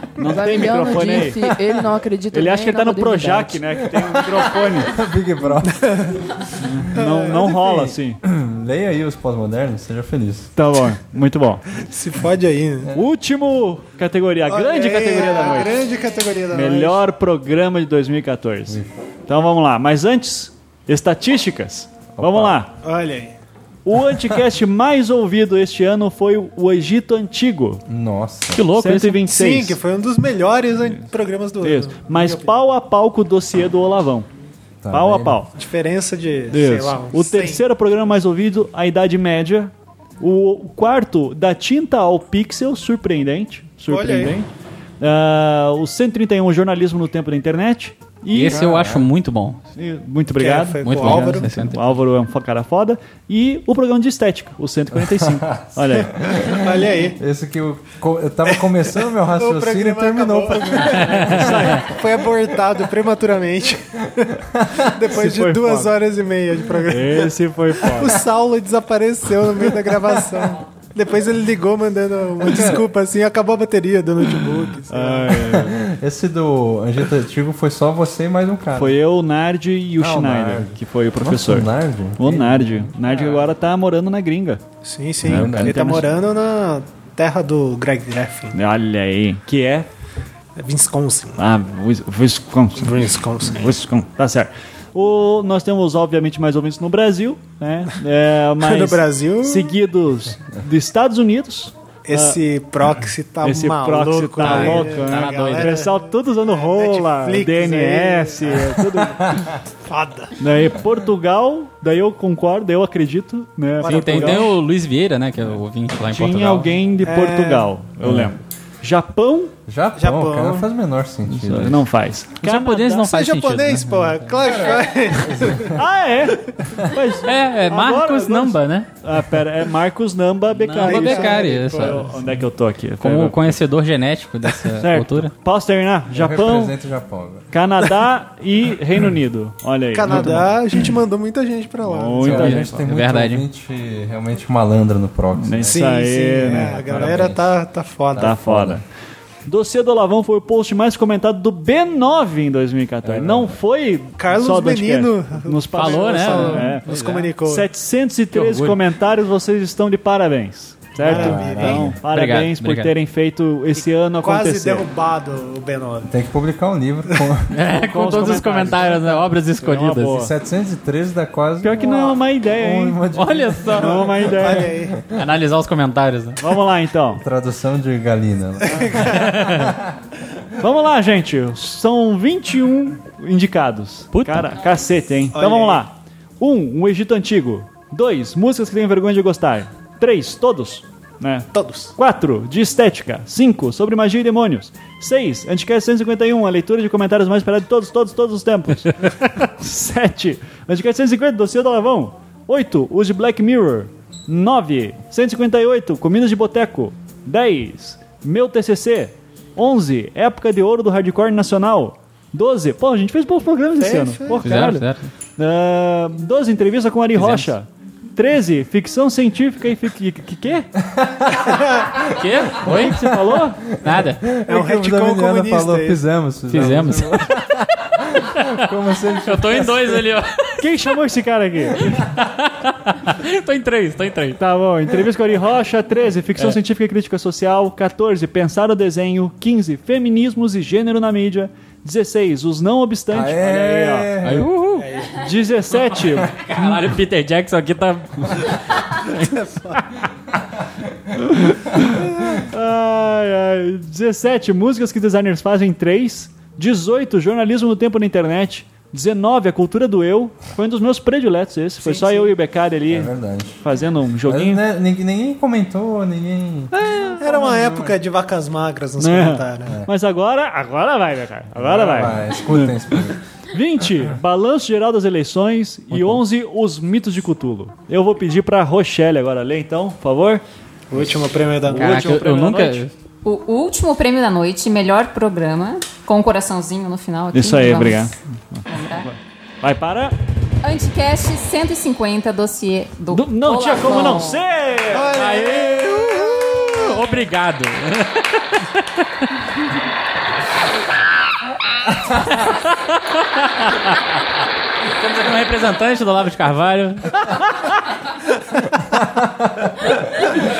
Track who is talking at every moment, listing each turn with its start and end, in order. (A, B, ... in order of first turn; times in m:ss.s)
0:00.2-0:01.5 A
0:00.2-0:03.6 B
0:02.3-0:04.9 A
0:03.8-0:06.4 C
0:05.9-0:06.2 D
0:06.6-0:08.2 A
0:06.9-0:07.5 D
0:07.3-0:10.5 C
0:10.6-0:11.6 A
0:11.8-0:12.9 D
0:12.9-0:15.8 A
0:14.5-0:17.0 D
0:16.5-0:22.7 A
0:18.7-0:19.0 C
0:22.1-0:22.6 C
0:22.8-0:23.4 D
0:23.8-0:27.8 A
0:27.9-0:28.6 C
0:28.5-0:29.2 E
0:28.7-0:29.8 A
0:29.3-0:32.6 D
0:31.6-0:34.3 A
0:34.8-0:35.4 C
0:34.9-0:35.5 A
0:35.6-0:37.6 D
0:36.5-0:44.5 A
0:43.9-0:44.4 D
0:45.0-0:48.6 A
0:48.3-0:49.6 E
0:48.5-0:49.1 C
0:49.8-0:56.2 A
0:50.4-0:51.5 D
0:50.8-0:51.8 E
0:55.1-1:01.8 C
0:56.4-0:57.2 D
0:59.2-1:15.4 D
1:01.0-1:01.9 A
1:04.5-1:04.8 C
1:05.1-1:05.9 A
1:06.9-1:08.2 A
1:12.4-1:12.9 C
1:14.9-1:15.8 A
1:15.4-1:19.0 C
1:18.7-1:24.6 A
1:20.0-1:23.4 C
1:24.8-1:28.6 D
1:25.2-1:26.1 A
1:25.2-1:26.0 C
1:28.5-1:29.9 A
1:30.6-1:31.4 D
1:31.4-1:42.4 A
1:32.8-1:33.7 D
1:38.6-1:39.7 D
1:42.1-1:49.2 D
1:43.4-1:49.6 A
1:44.4-1:45.8 E
1:49.8-1:50.4 D
1:50.4-1:54.5 A
1:53.8-1:54.5 D
1:53.8-1:56.7 E
1:56.1-1:59.5 A
1:57.0-1:57.7 D
1:58.0-1:58.3 C
1:59.7-2:01.8 C
2:00.0-2:00.7 D
2:01.2-2:03.1 A
2:02.4-2:04.2 E
2:03.0-2:05.8 D
2:04.3-2:05.8 C
2:05.7-2:13.6 A
2:07.2-2:08.9 E
2:10.6-2:12.0 E
2:10.8-2:12.0 D
2:13.0-2:15.3 E
2:14.8-2:16.7 A
2:16.1-2:17.5 C
2:17.5-2:20.6 A
2:19.9-2:22.4 D
2:21.8-2:22.8 A
2:22.2-2:25.8 C
2:22.3-2:23.4 E
2:25.4-2:27.4 A
2:25.7-2:28.4 D
2:26.5-2:27.3 C
2:28.1-2:28.8 C
2:28.2-2:28.8 A
2:29.5-2:44.9 A
2:33.0-2:33.6 C
2:34.2-2:37.7 D
2:35.8-2:37.2 E
2:38.3-2:38.8 E
2:41.0-2:41.9 D
2:41.0-2:42.0 C
2:42.1-2:42.9 E
2:44.2-2:46.1 D
2:46.0-2:47.6 C
2:47.5-2:50.3 E
2:47.8-2:50.3 A
2:50.0-2:55.2 C
2:51.6-2:53.2 A
2:53.1-2:54.1 E
2:53.7-2:54.7 A
2:54.3-2:55.0 D
2:55.1-2:56.4 E
2:56.4-2:57.2 A
2:57.1-2:59.9 C
2:59.1-2:59.7 E
3:00.6-3:40.7 A
3:04.1-3:04.6 E
3:05.3-3:05.8 D
3:11.5-3:11.9 D
3:33.8-3:34.4 D
3:34.4-3:35.1 E
3:37.1-3:37.5 E
3:40.8-3:41.5 C
3:41.5-3:41.8 D
3:42.0-3:43.1 E
3:42.6-3:43.6 A
3:43.7-3:44.2 E
3:43.7-3:50.0 C
3:44.5-3:46.0 D
3:46.5-3:48.6 E
3:49.2-3:50.6 E
3:50.6-3:52.0 A
3:51.8-3:54.4 E
3:54.4-4:04.1 A
4:03.1-4:04.5 C
4:04.2-4:04.9 E
4:04.7-4:05.3 D
4:05.1-4:06.8 A
4:05.8-4:09.2 E
4:09.0-4:09.8 D
4:11.2-4:24.6 A
4:21.8-4:22.3 D
4:22.9-4:23.6 C
4:24.2-4:26.7 C
4:26.8-4:27.5 A
4:27.2-4:29.8 D
4:29.0-4:33.0 A
4:31.6-4:33.2 C
4:33.5-4:40.4 A
4:35.9-4:36.2 E
4:40.9-4:42.0 D
4:41.6-4:42.9 A
4:41.7-4:42.9 E
4:43.2-4:48.1 F
4:47.3-4:50.1 A
4:48.7-4:49.1 F
4:50.6-4:54.4 F
4:53.1-4:55.2 A
4:54.9-4:57.1 D
4:55.0-4:58.9 E
5:02.3-5:04.0 E
5:04.8-5:07.2 E
5:07.2-5:07.7 A
5:08.8-5:09.7 C